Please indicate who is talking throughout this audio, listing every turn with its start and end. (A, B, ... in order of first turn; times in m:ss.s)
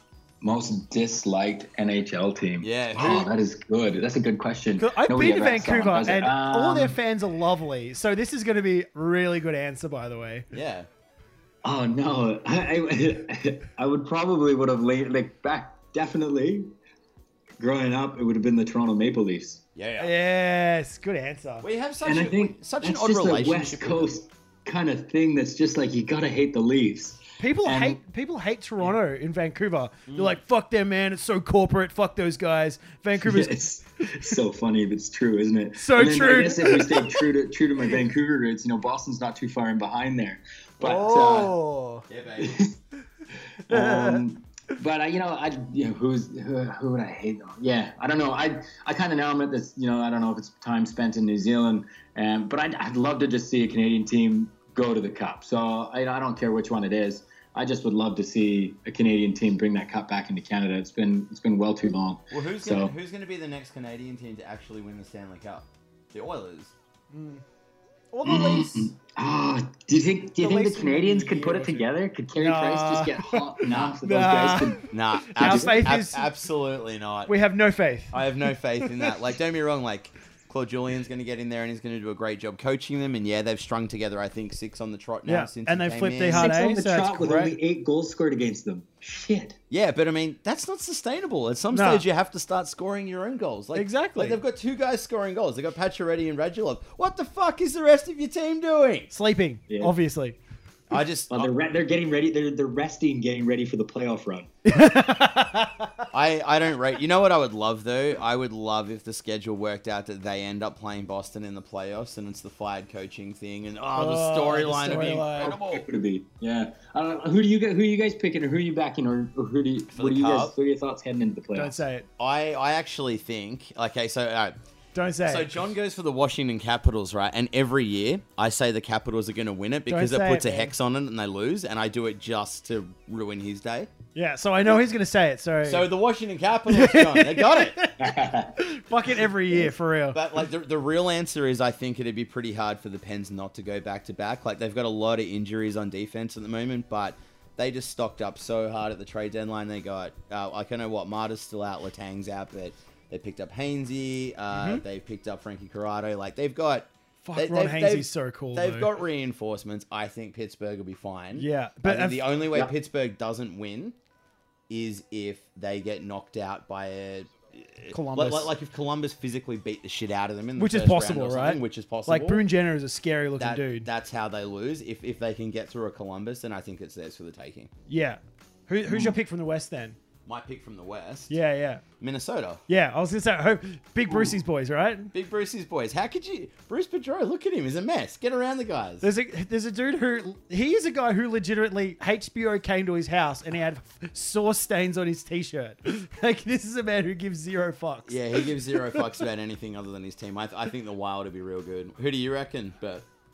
0:00.4-0:07.0 A
0:02.6-0:03.3 B
0:04.8-0:10.4 C
0:10.5-0:10.9 B
0:11.6-0:16.7 A
0:17.6-0:19.6 A
0:19.8-0:20.1 B
0:20.0-0:21.7 C
0:21.6-0:24.1 B
0:22.0-0:28.0 A
0:27.4-0:33.5 C
0:30.1-0:30.4 B
0:33.2-0:41.5 A
0:35.8-0:37.2 C
0:40.8-0:42.0 C
0:42.1-0:42.5 B
0:42.4-0:42.7 A
0:43.6-1:02.9 A
0:43.7-0:44.2 C
1:02.3-1:06.7 B
1:07.1-1:07.4 C
1:08.1-1:08.9 C
1:08.2-1:15.8 A
1:10.4-1:16.3 C
1:14.9-1:17.3 B
1:17.3-1:18.2 C
1:18.1-1:26.5 B
1:18.8-1:19.1 C
1:25.2-1:27.5 C
1:26.3-1:29.6 A
1:29.7-1:39.1 B
1:31.7-1:32.0 C
1:33.7-1:34.4 C
1:39.1-1:40.4 C
1:40.9-1:41.5 B
1:41.3-1:44.5 A
1:44.6-1:46.0 C
1:46.1-1:55.8 B
1:53.9-1:55.6 C
1:55.3-2:01.8 A
1:59.9-2:00.5 B
2:01.5-2:02.1 C
2:02.2-2:04.5 B
2:04.9-2:05.5 C
2:05.2-2:13.9 B
2:09.9-2:10.7 C
2:14.1-2:15.9 C
2:15.6-2:17.8 B
2:16.7-2:20.2 C
2:18.0-2:18.6 A
2:20.1-2:44.0 B
2:34.5-2:34.8 C
2:37.2-2:38.9 C
2:41.4-2:42.3 C
2:44.7-2:52.4 B
2:47.9-2:48.5 C
2:50.6-2:53.9 C
2:53.4-2:57.7 B
2:57.9-3:00.0 C
3:00.2-3:01.3 B
3:01.3-3:01.8 C
3:02.0-3:02.6 B
3:02.7-3:05.1 C
3:05.1-3:09.0 B
3:09.0-3:19.0 C
3:18.1-3:23.0 B